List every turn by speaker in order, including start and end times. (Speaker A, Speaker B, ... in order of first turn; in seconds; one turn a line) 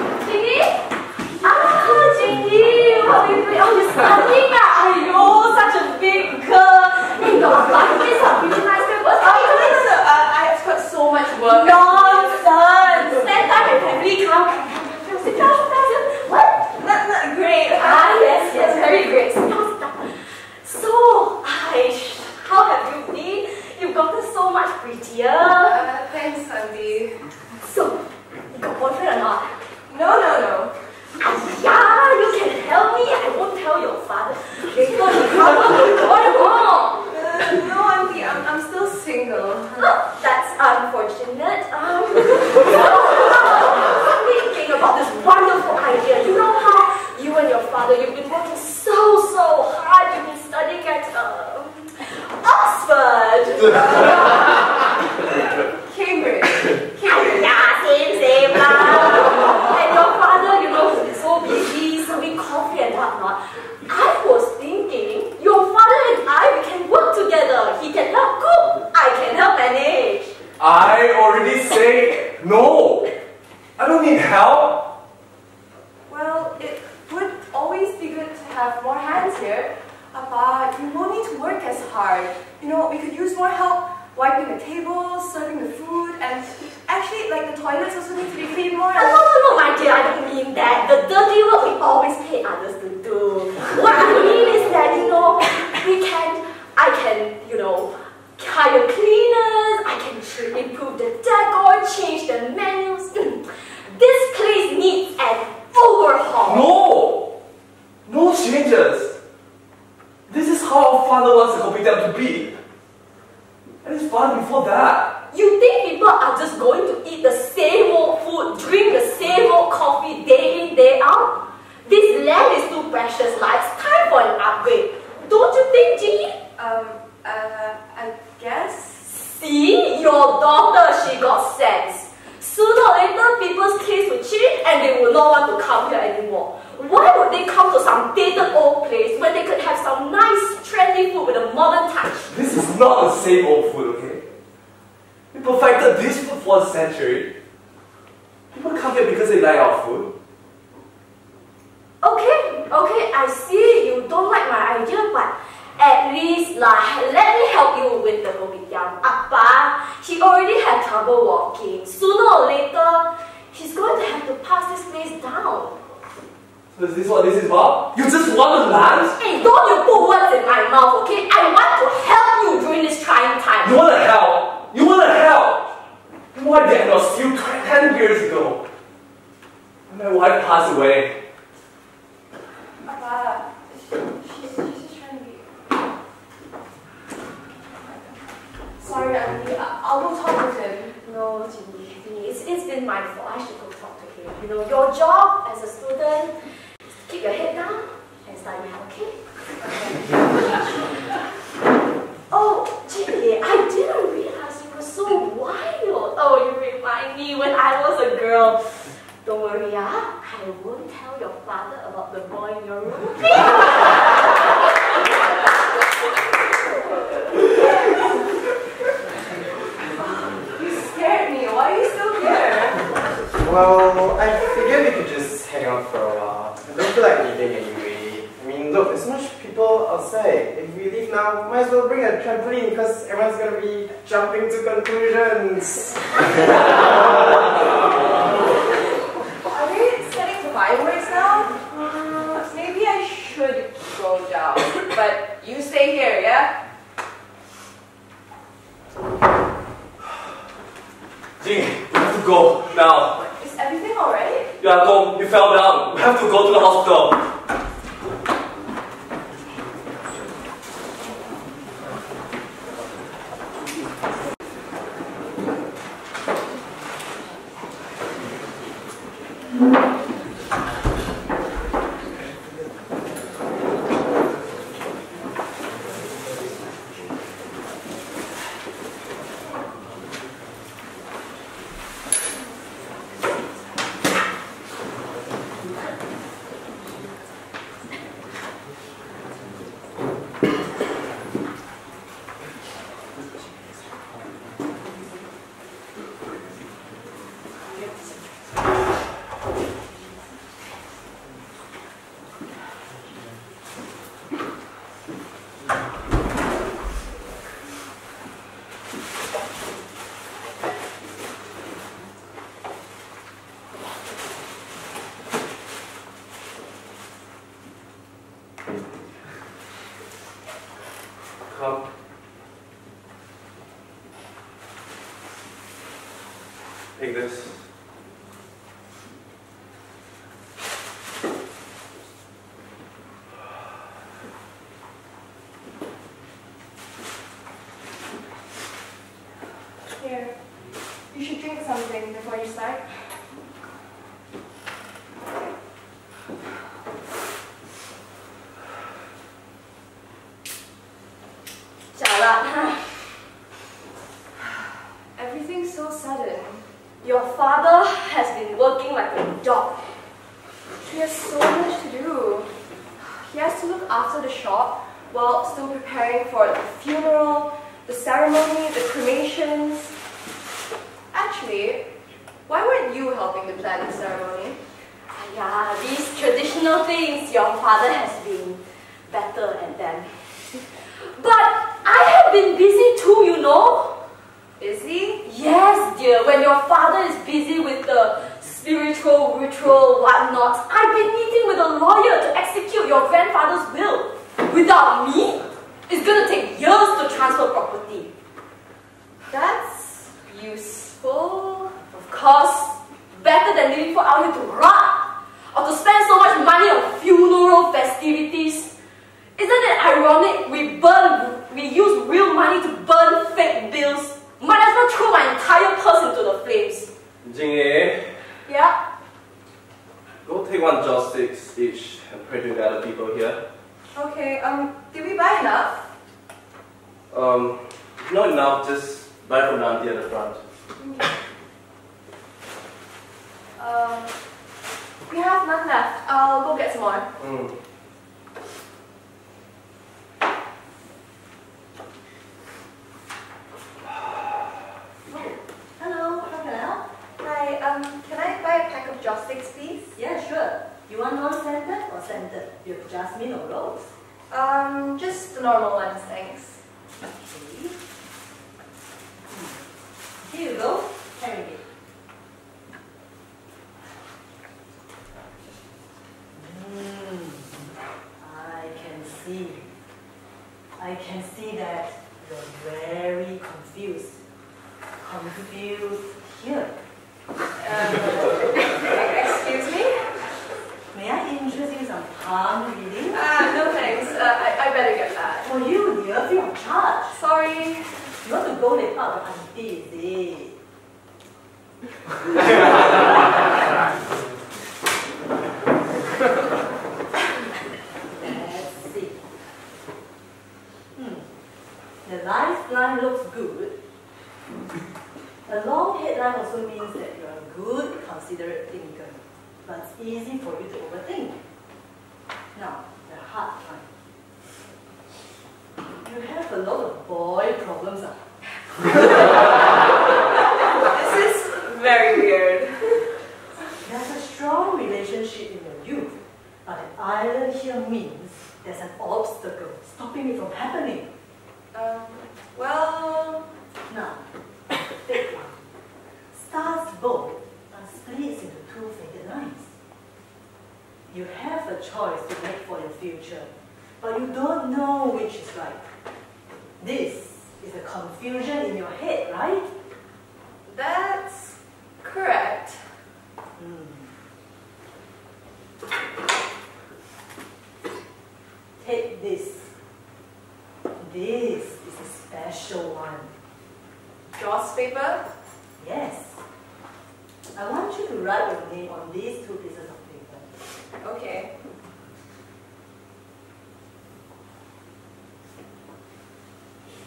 Speaker A: 0.2-0.8
Speaker A: 1.4-9.9
Speaker B: 9.2-12.4
Speaker A: 11.4-16.6
Speaker B: 16.8-19.4
Speaker A: 17.7-25.9
Speaker B: 25.6-27.3
Speaker A: 27.6-29.6
Speaker B: 29.9-30.7
Speaker A: 31.2-37.1
Speaker B: 37.1-39.9
Speaker A: 39.7-54.5
Speaker B: 55.8-57.5
Speaker A: 57.0-70.3
Speaker C: 70.6-73.1
Speaker C: 73.8-74.9
Speaker B: 76.1-89.3
Speaker A: 88.9-106.7
Speaker C: 106.4-107.3
Speaker C: 108.1-109.1
Speaker C: 110.3-112.6
Speaker C: 113.8-115.1
Speaker A: 115.3-126.4
Speaker B: 126.6-129.2
Speaker A: 129.2-142.3
Speaker C: 142.3-144.2
Speaker C: 145.3-147.3
Speaker C: 148.5-150.1
Speaker A: 152.0-165.8
Speaker C: 166.8-169.2
Speaker A: 169.2-173.8
Speaker C: 173.6-175.7
Speaker C: 176.3-178.6
Speaker C: 179.9-181.2
Speaker B: 182.8-185.5
Speaker B: 188.8-190.9
Speaker A: 191.0-196.5
Speaker A: 197.0-199.2
Speaker A: 202.3-213.7
Speaker B: 220.5-222.8
Speaker D: 223.3-236.7
Speaker B: 239.5-246.5
Speaker C: 251.4-253.2
Speaker B: 253.3-254.5
Speaker C: 254.6-257.2
Speaker C: 321.5-321.8
Speaker C: 327.0-327.6
Speaker B: 340.0-340.3
Speaker B: 341.1-343.0
Speaker A: 351.9-353.1
Speaker B: 355.2-356.6
Speaker A: 357.0-359.9
Speaker B: 360.8-369.9
Speaker B: 371.1-371.9
Speaker B: 372.5-374.6
Speaker A: 375.1-384.0
Speaker B: 384.6-385.2
Speaker A: 385.2-398.1
Speaker B: 399.3-401.8
Speaker A: 401.9-408.7
Speaker A: 409.4-416.9
Speaker C: 417.2-418.1
Speaker B: 418.5-418.8
Speaker C: 420.3-423.4
Speaker B: 423.9-425.9
Speaker C: 427.1-430.4
Speaker B: 430.8-431.1
Speaker B: 433.6-434.2
Speaker B: 435.1-437.1
Speaker C: 437.2-437.5
Speaker E: 445.8-446.9
Speaker B: 447.2-449.9
Speaker E: 450.0-453.9
Speaker B: 454.3-456.6
Speaker E: 457.0-457.8
Speaker E: 459.3-459.6
Speaker E: 460.2-461.6
Speaker E: 466.4-467.5
Speaker E: 468.2-469.7
Speaker E: 470.8-474.2
Speaker E: 475.0-476.7
Speaker B: 477.6-479.9
Speaker E: 480.9-483.3
Speaker B: 483.1-485.5
Speaker E: 485.4-487.2
Speaker B: 487.1-487.9
Speaker E: 488.2-490.6
Speaker E: 498.2-499.2
Speaker E: 500.9-501.2
Speaker E: 502.0-503.8
Speaker E: 505.5-511.4
Speaker E: 512.5-513.9
Speaker E: 516.0-518.2
Speaker B: 520.7-523.0
Speaker E: 523.8-531.1
Speaker B: 531.7-533.5
Speaker E: 533.9-534.2
Speaker E: 534.9-535.6
Speaker E: 536.3-539.7
Speaker E: 541.1-543.5
Speaker E: 544.0-545.9
Speaker E: 546.8-549.7
Speaker B: 550.7-552.9
Speaker E: 553.6-554.1
Speaker E: 558.8-559.7
Speaker E: 561.0-563.3
Speaker B: 564.4-565.2
Speaker E: 565.8-566.4
Speaker E: 567.5-570.5
Speaker B: 571.0-571.5